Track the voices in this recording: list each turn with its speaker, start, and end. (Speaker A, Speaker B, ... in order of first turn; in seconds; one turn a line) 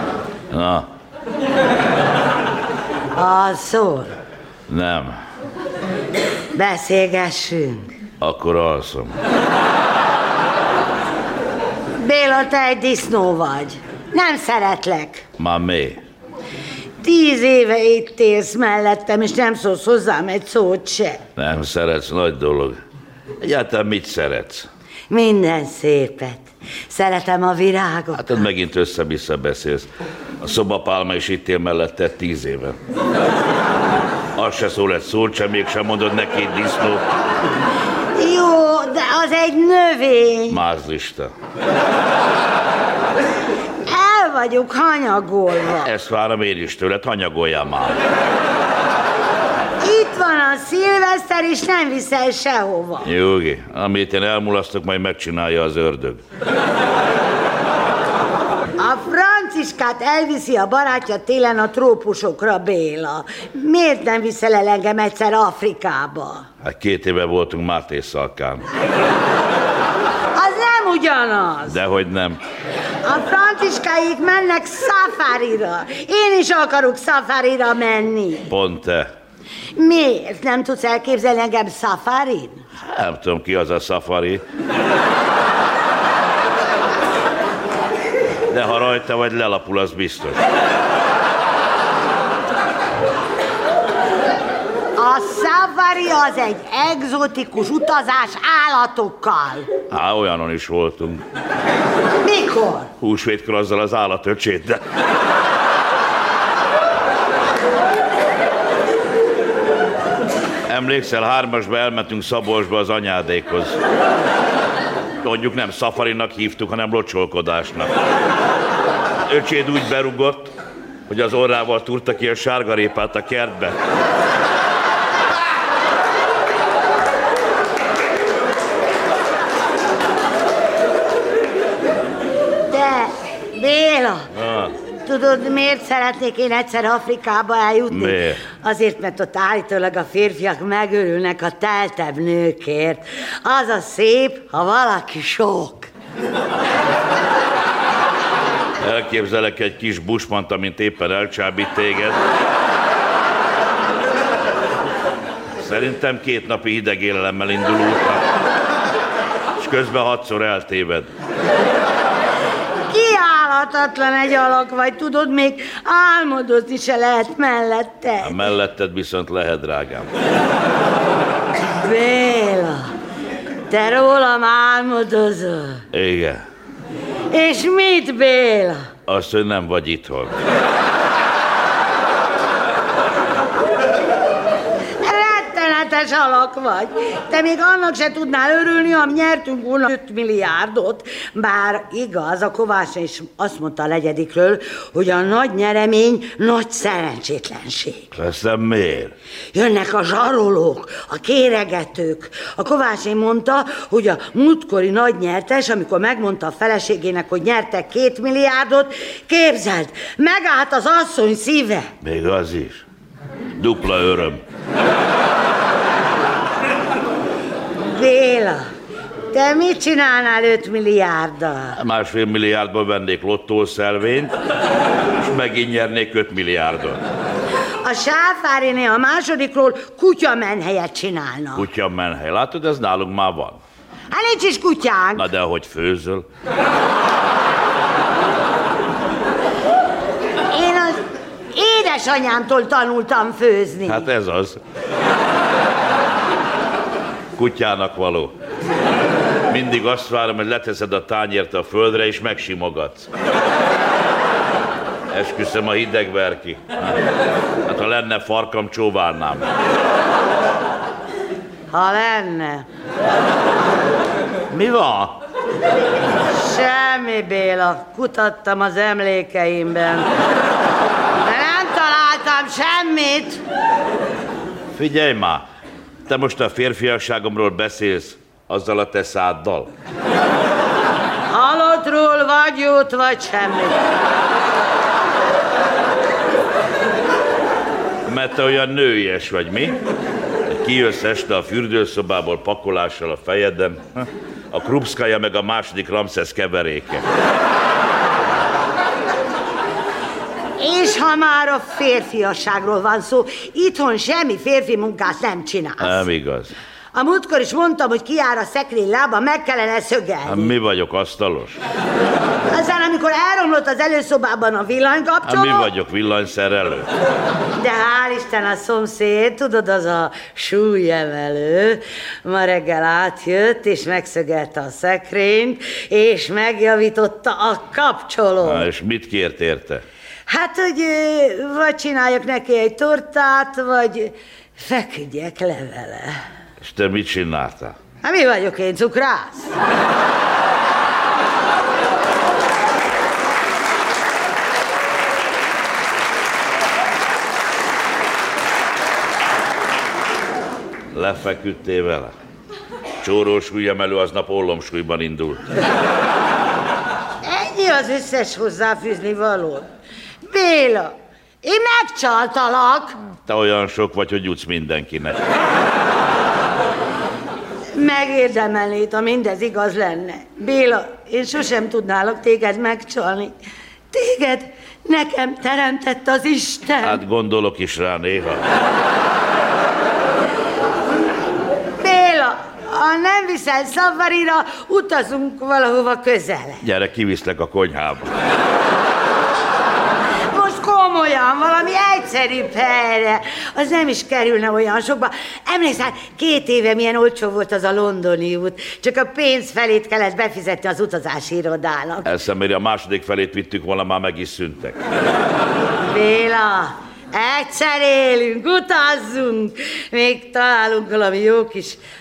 Speaker A: 0.5-0.9
Speaker B: 3.1-4.1
Speaker A: 4.7-5.2
Speaker B: 6.5-7.9
Speaker A: 8.2-9.2
Speaker B: 12.0-15.2
Speaker A: 15.4-16.0
Speaker B: 17.0-21.2
Speaker A: 21.4-22.8
Speaker A: 23.4-24.7
Speaker B: 25.1-28.5
Speaker A: 28.1-29.9
Speaker A: 30.4-32.8
Speaker A: 34.4-37.0
Speaker B: 38.2-40.6
Speaker A: 40.5-41.3
Speaker B: 43.8-45.9
Speaker A: 45.8-48.0
Speaker B: 49.8-53.1
Speaker A: 53.0-56.2
Speaker B: 58.8-66.5
Speaker A: 66.6-68.7
Speaker B: 70.3-71.8
Speaker A: 71.7-72.4
Speaker B: 73.0-78.5
Speaker A: 78.5-79.1
Speaker B: 79.8-82.6
Speaker A: 82.9-84.4
Speaker A: 88.5-90.4
Speaker B: 95.0-99.7
Speaker A: 99.9-101.2
Speaker B: 102.2-102.9
Speaker A: 103.0-104.8
Speaker A: 110.7-113.8
Speaker A: 115.2-117.9
Speaker A: 119.2-120.5
Speaker A: 121.1-123.8
Speaker B: 132.7-134.3
Speaker A: 134.3-134.7
Speaker B: 135.0-145.9
Speaker A: 137.9-138.4
Speaker A: 148.8-152.2
Speaker A: 155.6-158.2
Speaker A: 159.6-161.1
Speaker B: 162.9-168.4
Speaker A: 168.2-170.1
Speaker B: 171.7-172.9
Speaker B: 173.7-175.8
Speaker A: 175.9-176.4
Speaker B: 177.3-178.9
Speaker A: 179.1-180.3
Speaker B: 185.0-198.1
Speaker A: 198.1-199.1
Speaker B: 199.5-211.9
Speaker A: 212.0-212.8
Speaker A: 213.6-214.4
Speaker B: 217.8-218.6
Speaker B: 219.3-221.8
Speaker A: 221.8-224.3
Speaker A: 225.2-227.0
Speaker B: 227.8-231.7
Speaker A: 231.6-233.6
Speaker B: 234.1-235.3
Speaker A: 235.2-236.2
Speaker B: 240.5-244.1
Speaker A: 243.8-244.6
Speaker A: 247.3-248.3
Speaker A: 249.5-253.1
Speaker A: 255.1-257.0
Speaker A: 257.7-259.5
Speaker B: 261.7-262.7
Speaker A: 264.5-265.2
Speaker B: 266.3-270.1
Speaker B: 271.2-273.4
Speaker A: 274.8-275.4
Speaker A: 276.1-279.7
Speaker B: 281.3-283.8
Speaker A: 288.1-289.8
Speaker A: 290.5-297.1
Speaker B: 300.6-306.1
Speaker A: 305.8-306.6
Speaker B: 306.9-310.5
Speaker A: 310.2-311.6
Speaker B: 312.5-315.7
Speaker A: 315.2-316.9
Speaker B: 317.6-328.7
Speaker A: 328.4-329.8
Speaker B: 330.3-336.2
Speaker A: 336.6-337.8
Speaker B: 338.0-339.5
Speaker A: 350.9-352.1
Speaker A: 353.0-355.5
Speaker B: 357.2-359.7
Speaker B: 360.2-363.0
Speaker A: 363.3-365.2
Speaker B: 367.7-373.3
Speaker B: 373.9-377.0
Speaker A: 376.8-378.4
Speaker B: 381.8-386.6
Speaker A: 386.6-388.1
Speaker B: 390.3-402.1
Speaker A: 402.0-404.8
Speaker B: 405.8-411.8